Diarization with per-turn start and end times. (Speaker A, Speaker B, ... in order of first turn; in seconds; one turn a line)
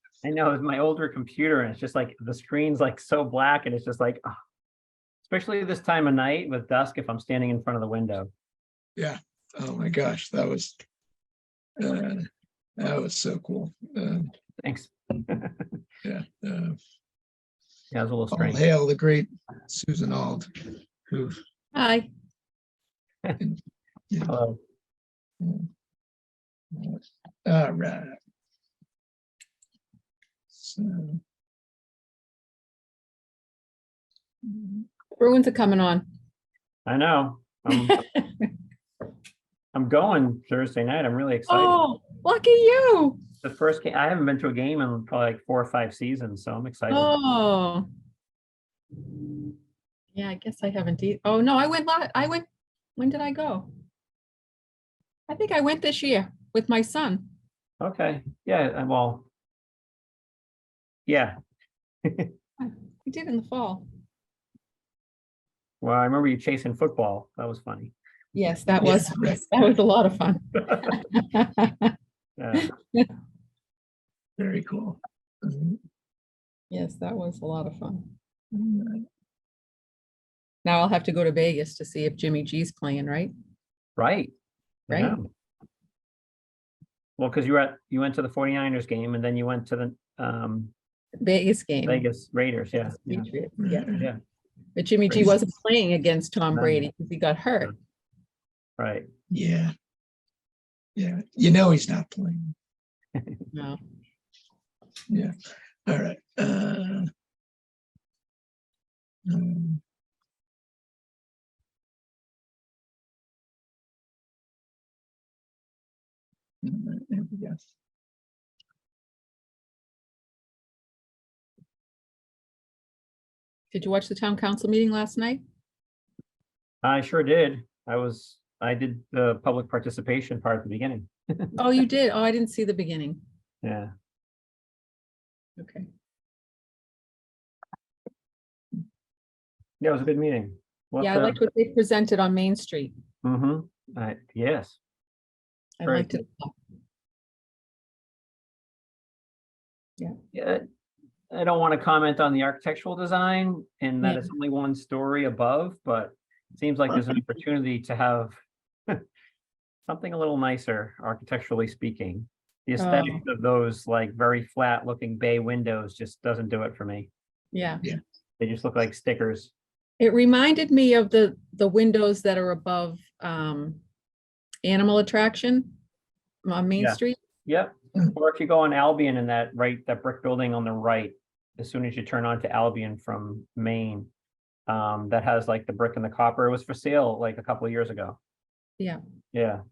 Speaker A: 0.2-4.2
Speaker A: 5.2-8.3
Speaker B: 9.0-10.8
Speaker B: 11.8-12.3
Speaker B: 12.8-14.3
Speaker A: 14.6-15.8
Speaker B: 16.0-16.8
Speaker A: 17.9-18.6
Speaker B: 18.3-21.4
Speaker C: 21.7-22.1
Speaker A: 24.2-24.6
Speaker B: 26.7-28.2
Speaker B: 30.5-31.2
Speaker B: 34.5-34.8
Speaker C: 35.2-36.1
Speaker A: 36.9-38.0
Speaker C: 37.7-38.5
Speaker A: 39.7-41.8
Speaker C: 41.5-43.2
Speaker A: 43.4-47.1
Speaker C: 46.9-47.9
Speaker C: 50.1-52.5
Speaker C: 53.0-53.7
Speaker C: 55.3-57.3
Speaker A: 57.8-59.3
Speaker A: 61.1-61.4
Speaker A: 62.0-62.3
Speaker C: 62.6-63.9
Speaker A: 65.8-67.9
Speaker C: 68.3-71.9
Speaker B: 68.8-69.4
Speaker A: 72.4-72.7
Speaker C: 72.5-73.1
Speaker B: 74.4-75.8
Speaker C: 76.7-78.1
Speaker B: 78.5-79.0
Speaker C: 80.7-83.3
Speaker A: 84.0-84.3
Speaker A: 84.9-85.3
Speaker C: 84.9-85.2
Speaker A: 87.2-90.7
Speaker C: 91.2-92.1
Speaker A: 91.9-93.3
Speaker C: 92.8-93.9
Speaker B: 93.6-94.1
Speaker A: 93.9-94.2
Speaker C: 94.8-97.8
Speaker A: 96.5-96.9
Speaker A: 98.8-99.1
Speaker B: 99.3-99.7
Speaker B: 101.0-102.5
Speaker C: 103.5-103.8
Speaker B: 105.1-105.3
Speaker B: 105.9-107.1
Speaker B: 109.3-109.8
Speaker B: 116.6-117.6
Speaker C: 123.7-125.4
Speaker A: 126.8-131.5
Speaker C: 131.6-133.2
Speaker A: 133.6-133.9
Speaker C: 135.6-135.9
Speaker A: 139.8-141.4
Speaker C: 141.0-142.9
Speaker A: 143.2-144.8
Speaker C: 145.8-146.5
Speaker A: 145.8-146.2
Speaker A: 150.3-150.7
Speaker A: 151.3-158.4
Speaker C: 154.0-154.3
Speaker A: 159.9-167.1
Speaker C: 162.8-163.2
Speaker C: 167.5-167.9
Speaker A: 168.4-169.5
Speaker C: 170.0-173.8
Speaker C: 174.6-175.8
Speaker C: 176.4-177.2
Speaker A: 176.8-184.1
Speaker A: 184.7-188.2
Speaker A: 189.3-189.6